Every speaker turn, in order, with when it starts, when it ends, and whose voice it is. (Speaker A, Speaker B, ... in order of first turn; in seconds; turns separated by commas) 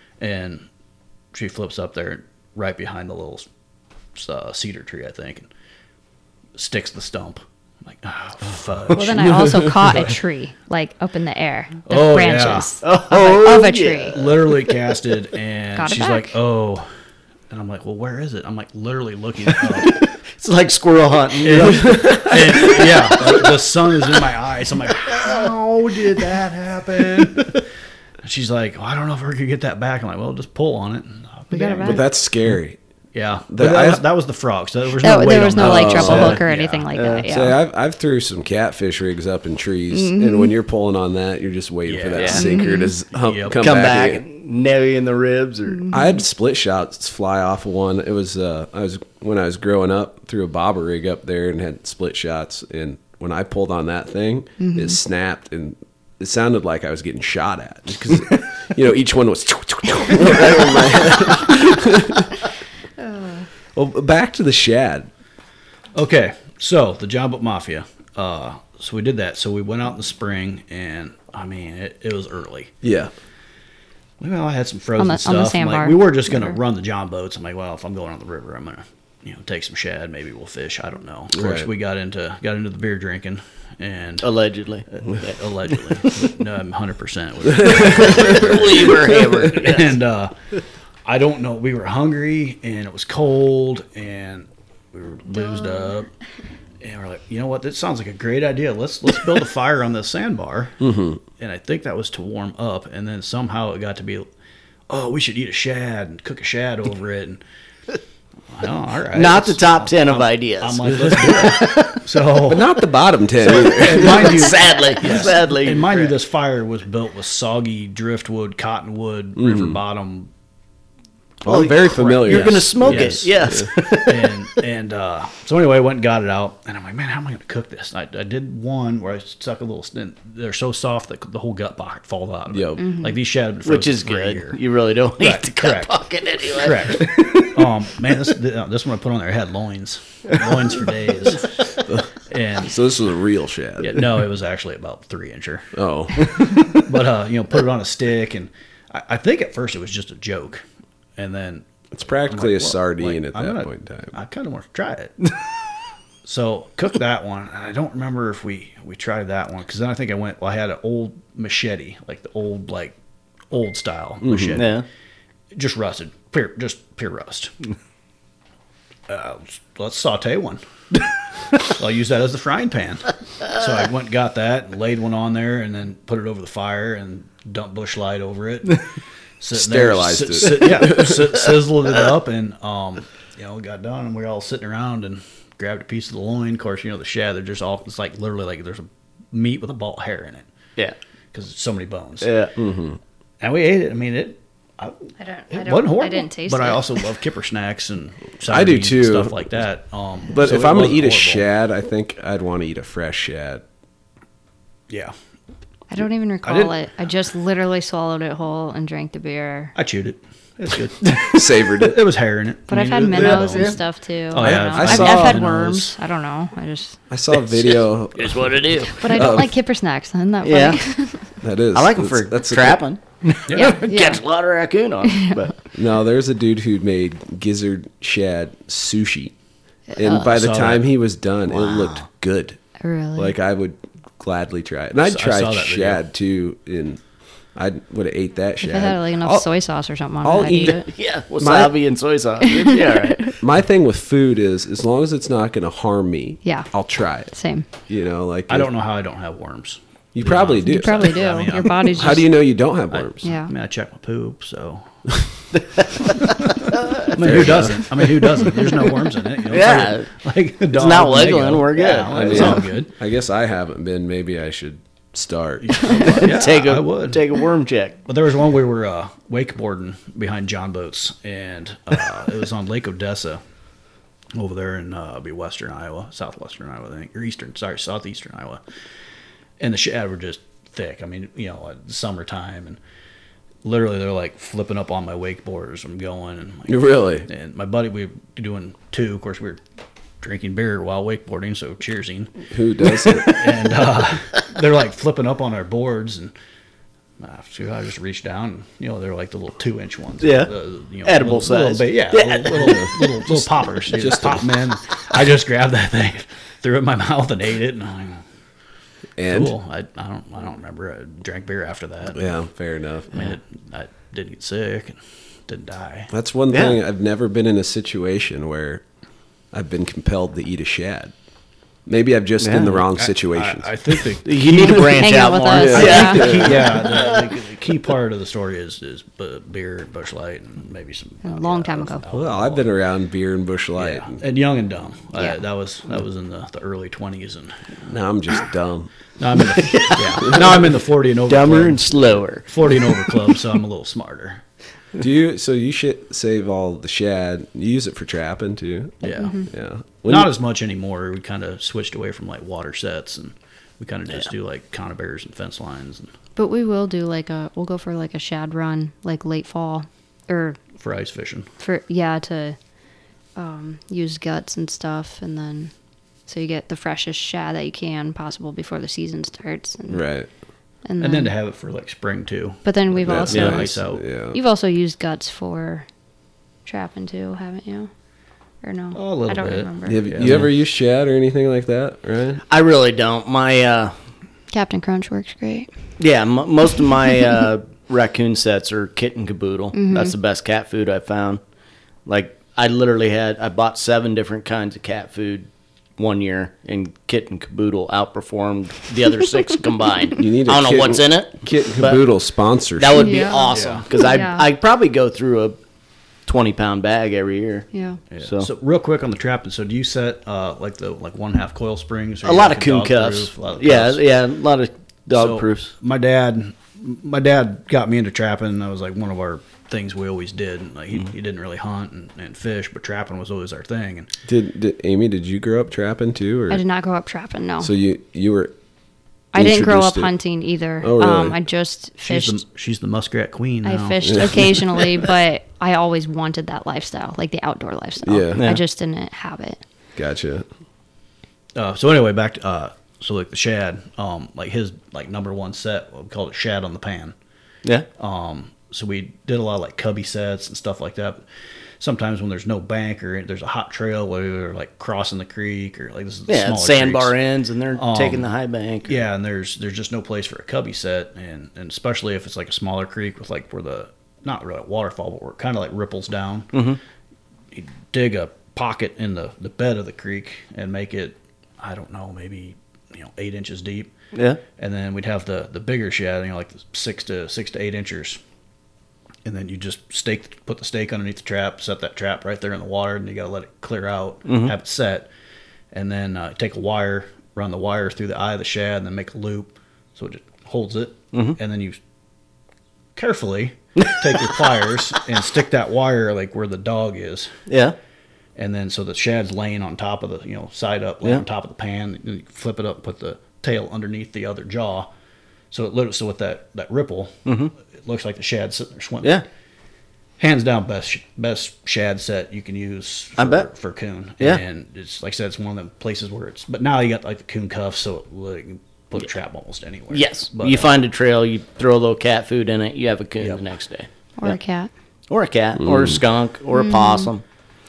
Speaker A: 0.2-0.7, Speaker A: 1.3-3.5, Speaker A: 4.1-5.5, Speaker A: 6.5-9.4, Speaker B: 8.9-14.1, Speaker A: 11.9-12.7, Speaker C: 12.8-14.8, Speaker A: 14.1-16.9, Speaker B: 15.8-16.3, Speaker A: 17.5-20.1, Speaker C: 19.5-23.6, Speaker A: 21.4-27.6, Speaker C: 25.0-25.5, Speaker C: 26.1-26.4, Speaker C: 27.0-27.5, Speaker A: 28.2-32.1, Speaker B: 31.5-32.0, Speaker D: 31.8-32.8, Speaker A: 33.1-36.9, Speaker D: 33.5-34.0, Speaker B: 35.0-37.6, Speaker D: 35.6-36.4, Speaker C: 35.8-36.4, Speaker C: 36.9-37.2, Speaker D: 37.3-44.2, Speaker B: 39.9-40.5, Speaker A: 41.9-42.5, Speaker C: 42.1-42.5, Speaker B: 42.3-43.0, Speaker A: 43.2-43.7, Speaker C: 43.6-45.9, Speaker D: 45.9-62.3, Speaker B: 54.6-55.0, Speaker D: 63.7-65.1, Speaker A: 65.9-72.7, Speaker D: 72.8-73.1, Speaker A: 74.2-84.3, Speaker B: 75.0-76.6, Speaker D: 81.3-81.7, Speaker C: 84.2-85.4, Speaker A: 84.9-90.3, Speaker D: 87.6-88.4, Speaker C: 87.7-90.0, Speaker A: 91.0-96.1, Speaker B: 95.6-95.9, Speaker A: 96.8-100.8, Speaker D: 100.8-101.2, Speaker A: 101.4-104.3, Speaker A: 104.9-107.4, Speaker A: 108.5-112.8, Speaker C: 109.1-112.1, Speaker D: 112.4-114.5, Speaker A: 113.4-120.3, Speaker C: 113.5-116.1, Speaker D: 119.3-119.8, Speaker D: 121.4-123.7, Speaker C: 121.4-124.5, Speaker A: 122.0-134.6, Speaker D: 132.5-132.9, Speaker B: 132.8-133.2, Speaker C: 133.6-137.4, Speaker A: 135.2-141.7, Speaker A: 142.3-142.8, Speaker D: 142.6-144.1, Speaker A: 143.8-145.7, Speaker D: 145.7-146.8, Speaker A: 146.7-150.6, Speaker A: 151.2-155.2, Speaker D: 151.9-154.2, Speaker A: 156.2-162.9, Speaker A: 163.5-164.8, Speaker D: 164.2-164.6, Speaker C: 164.6-164.8, Speaker A: 165.5-167.5, Speaker A: 169.1-178.8, Speaker A: 179.4-190.5, Speaker D: 179.5-181.4, Speaker A: 191.3-192.3, Speaker C: 192.2-192.5, Speaker D: 192.6-193.0, Speaker A: 193.4-194.9, Speaker B: 195.2-197.0, Speaker A: 195.5-201.4, Speaker D: 198.5-199.4, Speaker D: 200.3-203.6, Speaker A: 204.9-205.1, Speaker B: 205.9-209.7, Speaker A: 206.4-206.7, Speaker A: 209.7-213.8, Speaker D: 211.3-212.0, Speaker B: 212.7-217.0, Speaker C: 213.1-213.8, Speaker A: 214.3-216.0, Speaker D: 214.3-215.5, Speaker D: 217.1-219.5, Speaker C: 217.5-219.2, Speaker B: 218.9-221.3, Speaker C: 220.4-220.8, Speaker D: 221.4-222.8, Speaker C: 221.7-225.5, Speaker A: 223.5-223.8, Speaker B: 223.5-224.2, Speaker B: 225.1-225.4, Speaker D: 225.7-229.3, Speaker B: 229.9-230.3, Speaker D: 229.9-232.6, Speaker A: 230.2-230.8, Speaker A: 231.6-231.8, Speaker B: 232.8-233.3, Speaker D: 233.2-237.0, Speaker A: 235.0-236.0, Speaker D: 237.5-239.5, Speaker B: 238.6-240.9, Speaker D: 240.2-240.9, Speaker C: 240.8-243.4, Speaker D: 241.4-241.8, Speaker B: 242.4-243.3, Speaker D: 243.4-247.3, Speaker B: 246.4-246.7, Speaker B: 247.3-247.7, Speaker D: 247.9-248.7, Speaker A: 248.5-252.2, Speaker D: 250.1-253.3, Speaker B: 250.6-252.3, Speaker A: 252.9-254.9, Speaker B: 253.2-253.5, Speaker A: 256.0-262.9, Speaker C: 256.7-257.1, Speaker D: 257.1-258.1, Speaker C: 259.4-260.1, Speaker C: 260.7-262.6, Speaker D: 262.1-266.2, Speaker A: 265.6-267.2, Speaker C: 266.2-268.0, Speaker A: 268.1-273.4, Speaker A: 274.3-278.6, Speaker A: 279.6-282.8, Speaker A: 283.6-289.6, Speaker D: 286.7-287.3, Speaker A: 290.2-296.3, Speaker D: 292.5-293.7, Speaker A: 297.2-308.2, Speaker C: 300.2-300.5, Speaker C: 301.0-303.0, Speaker D: 302.6-304.5, Speaker D: 309.2-309.5, Speaker A: 309.2-312.3, Speaker D: 312.1-313.2, Speaker A: 313.1-316.1, Speaker D: 316.1-318.8, Speaker C: 316.5-316.8, Speaker D: 319.5-321.1, Speaker D: 321.9-324.1, Speaker C: 322.4-322.8, Speaker A: 322.9-325.0, Speaker C: 324.2-327.3, Speaker B: 325.0-326.4, Speaker D: 325.5-326.8, Speaker A: 325.7-332.7, Speaker B: 331.2-332.0, Speaker D: 332.1-334.2, Speaker A: 333.8-337.8, Speaker D: 337.9-338.9, Speaker A: 339.2-344.4, Speaker C: 339.6-340.7, Speaker D: 340.3-340.5, Speaker C: 341.3-343.2, Speaker D: 345.0-350.3, Speaker A: 349.0-349.4, Speaker B: 349.2-349.5, Speaker A: 350.1-356.1, Speaker B: 356.4-360.6, Speaker A: 360.8-361.5, Speaker B: 361.6-362.6, Speaker B: 363.4-365.7, Speaker B: 366.3-370.1, Speaker D: 369.9-370.3, Speaker B: 370.8-371.3, Speaker A: 371.0-374.0, Speaker B: 372.6-373.7, Speaker D: 373.0-374.4, Speaker C: 373.3-373.6, Speaker B: 374.3-375.9, Speaker B: 376.6-377.9, Speaker B: 378.6-380.1, Speaker A: 378.9-380.4, Speaker D: 379.8-382.4, Speaker C: 382.5-383.9, Speaker B: 384.5-385.7, Speaker C: 386.0-391.4, Speaker B: 389.7-390.1, Speaker C: 392.0-402.0, Speaker D: 400.2-403.2, Speaker C: 402.8-405.6, Speaker B: 402.9-404.5, Speaker A: 403.5-403.9, Speaker C: 406.2-407.7, Speaker B: 407.7-408.0, Speaker A: 408.1-414.1, Speaker C: 408.2-408.5, Speaker C: 412.2-415.7, Speaker A: 415.1-424.1, Speaker D: 424.2-426.6, Speaker B: 426.5-427.7, Speaker D: 427.6-428.5, Speaker B: 429.3-432.4, Speaker D: 429.3-430.1, Speaker D: 430.8-431.4, Speaker A: 432.0-434.5, Speaker B: 433.6-439.6, Speaker D: 434.0-434.5, Speaker D: 438.0-438.4, Speaker C: 438.3-438.6, Speaker D: 439.9-440.4, Speaker A: 441.6-447.1, Speaker A: 448.0-451.2, Speaker A: 451.8-457.2, Speaker C: 456.3-458.9, Speaker A: 457.7-458.3, Speaker A: 458.9-466.6, Speaker C: 466.5-466.8, Speaker A: 467.5-473.9, Speaker C: 474.1-474.4, Speaker A: 474.5-478.2, Speaker A: 479.2-485.1, Speaker C: 484.2-484.5, Speaker A: 485.7-491.8, Speaker C: 491.1-491.4, Speaker A: 492.9-497.4, Speaker C: 493.8-494.4, Speaker C: 497.5-497.7, Speaker A: 498.4-504.9, Speaker A: 505.5-507.2, Speaker C: 507.2-507.5, Speaker A: 507.8-509.2, Speaker A: 510.2-520.7, Speaker C: 513.2-513.5, Speaker C: 519.9-524.4, Speaker B: 524.2-524.7, Speaker C: 525.1-527.2, Speaker D: 525.6-526.0, Speaker B: 526.5-527.1